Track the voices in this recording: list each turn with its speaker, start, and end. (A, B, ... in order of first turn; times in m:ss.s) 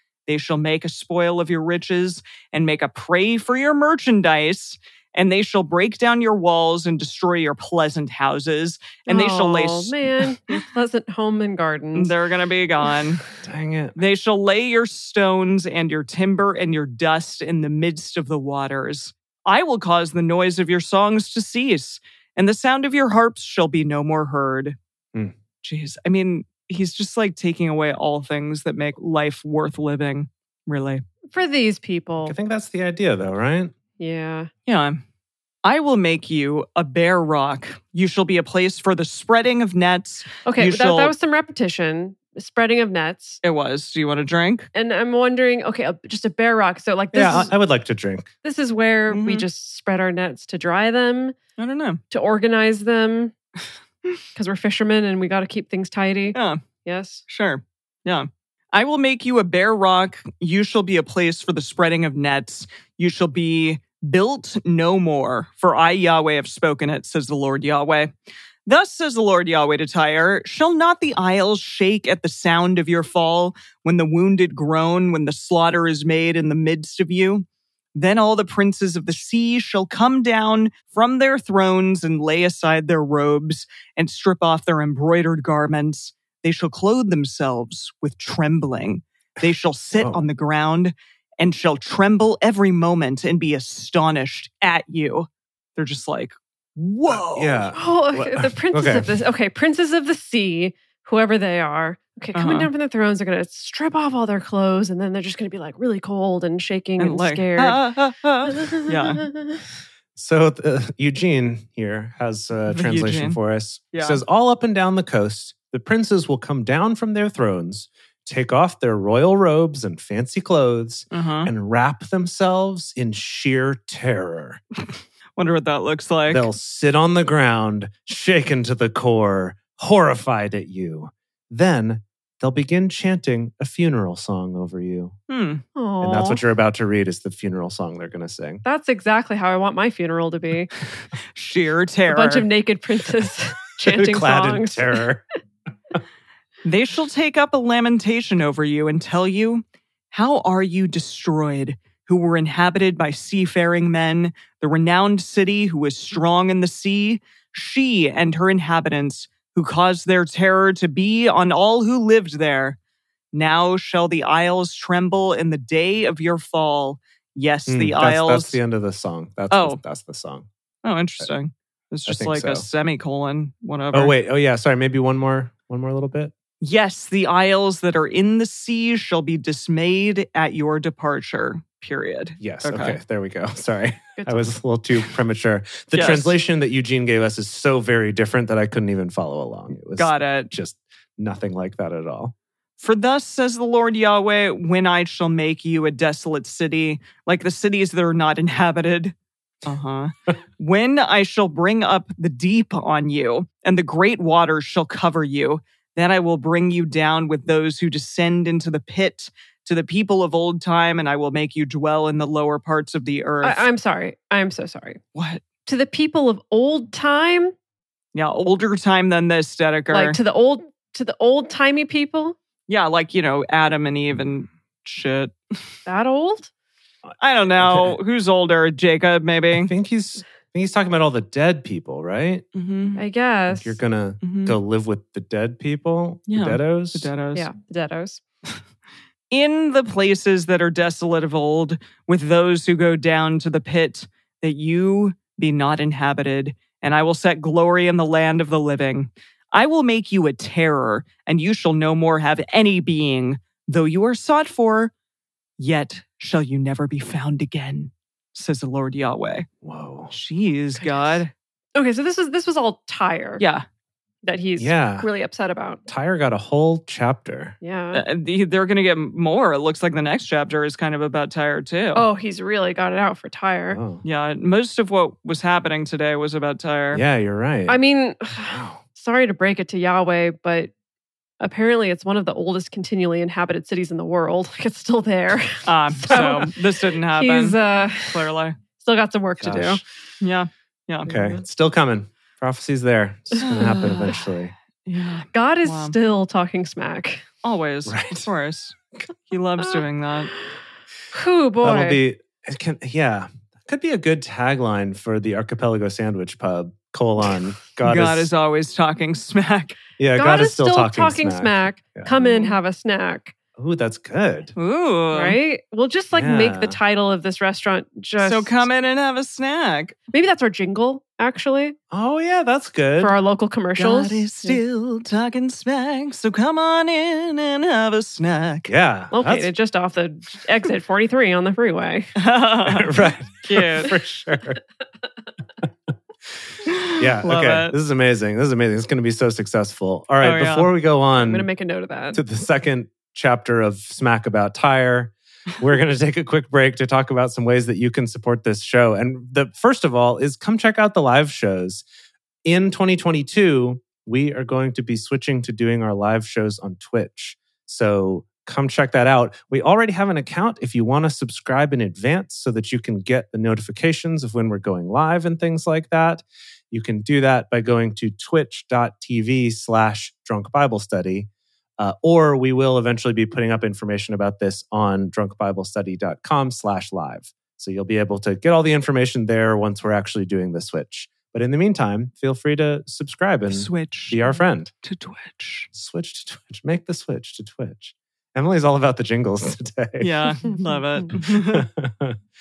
0:00.3-0:10.6 A
0:09.1-0:12.1 B
0:12.0-0:13.2 A
0:13.4-0:14.0 C
0:14.0-0:24.8 A
0:25.6-0:31.0 A
0:31.3-0:32.4 B
0:32.2-0:33.7 C
0:34.0-0:34.5 B
0:34.7-0:35.0 A
0:35.6-0:41.1 A
0:40.4-0:43.4 B
0:43.4-0:44.7 A
0:44.7-0:47.5 B
0:47.1-0:48.3 C
0:48.4-0:51.4 B
0:49.1-0:49.4 A
0:51.6-0:52.0 A
0:52.1-0:53.3 B
0:54.4-0:57.2 B
0:56.4-0:56.6 A
0:57.3-1:08.1 A
1:08.7-1:37.6 A
1:29.9-1:30.2 C
1:37.1-1:39.2 C
1:37.7-1:47.8 B
1:42.3-1:42.7 A
1:47.0-1:49.2 A
1:48.5-1:49.6 B
1:50.2-2:04.6 C
1:52.7-1:53.4 A
1:53.9-1:54.2 A
2:01.1-2:01.5 A
2:05.4-2:06.5 A
2:06.3-2:15.2 C
2:15.3-2:15.6 A
2:15.8-2:16.4 B
2:16.0-2:18.6 C
2:18.6-2:20.7 B
2:21.4-2:22.5 A
2:22.1-2:25.0 B
2:23.9-2:25.2 C
2:26.6-2:42.8 A
2:43.3-2:48.6 A
2:47.7-2:50.5 C
2:49.5-2:49.8 A
2:50.8-2:54.1 A
2:52.1-2:52.7 C
2:53.9-2:56.3 C
2:56.6-3:03.0 A
3:02.4-3:12.3 C
3:04.2-3:04.4 B
3:05.9-3:06.4 A
3:10.0-3:10.5 A
3:12.8-3:33.7 A
3:33.4-3:35.0 B
3:35.2-3:35.4 A
3:35.7-3:37.5 B
3:38.1-3:40.2 A
3:39.9-3:42.4 B
3:42.7-3:45.6 A
3:45.9-3:46.5 B
3:47.1-3:48.0 C
3:47.2-3:49.7 A
3:49.6-3:52.4 C
3:52.6-3:53.0 A
3:53.0-3:53.8 B
3:53.5-3:57.1 C
3:54.2-3:54.6 A
3:56.3-3:57.5 A
3:57.3-3:58.2 B
3:59.3-4:14.9 A
4:15.6-4:19.5 A
4:19.6-4:20.1 C
4:20.1-4:21.3 A
4:20.8-4:21.2 B
4:21.8-4:23.4 B
4:23.4-4:23.6 A
4:24.2-4:25.8 B
4:24.6-4:25.1 C
4:25.9-4:27.6 C
4:27.6-4:28.0 B
4:27.9-4:32.0 A
4:32.0-4:33.8 B
4:33.7-4:34.0 C
4:34.0-4:37.0 A
4:36.9-4:37.8 C
4:37.7-4:40.7 B
4:38.4-4:38.8 C
4:41.4-4:48.3 B
4:45.6-4:48.6 A
4:48.8-4:49.8 B
4:49.4-4:49.8 C
4:50.2-4:51.1 A
4:51.0-4:54.5 C
4:51.1-4:51.4 B
4:53.4-4:54.2 A
4:54.9-4:56.0 A
4:55.3-4:57.2 B
4:57.4-4:58.8 A
4:57.9-4:58.2 C
4:59.3-5:00.3 A
5:01.1-5:02.0 B
5:01.6-5:08.3 C
5:07.8-5:09.8 A
5:10.0-5:12.1 C
5:10.2-5:13.3 B
5:12.2-5:12.6 A
5:13.6-5:14.5 C
5:14.6-5:15.4 A
5:15.1-5:18.6 B
5:16.1-5:16.8 C
5:18.2-5:20.0 A
5:20.1-5:21.8 B
5:21.9-5:23.2 C
5:23.0-5:24.6 B
5:23.8-5:28.7 A
5:28.7-5:29.5 C
5:29.1-5:32.1 B
5:32.2-5:33.9 A
5:32.7-5:34.6 C
5:36.7-5:37.8 A
5:37.0-5:41.5 C
5:40.2-5:40.7 A
5:41.2-5:42.2 B
5:42.1-5:51.8 C
5:52.4-6:24.7 C
6:23.5-6:25.7 A
6:25.7-6:30.1 C
6:30.0-6:31.7 A
6:31.1-6:32.2 C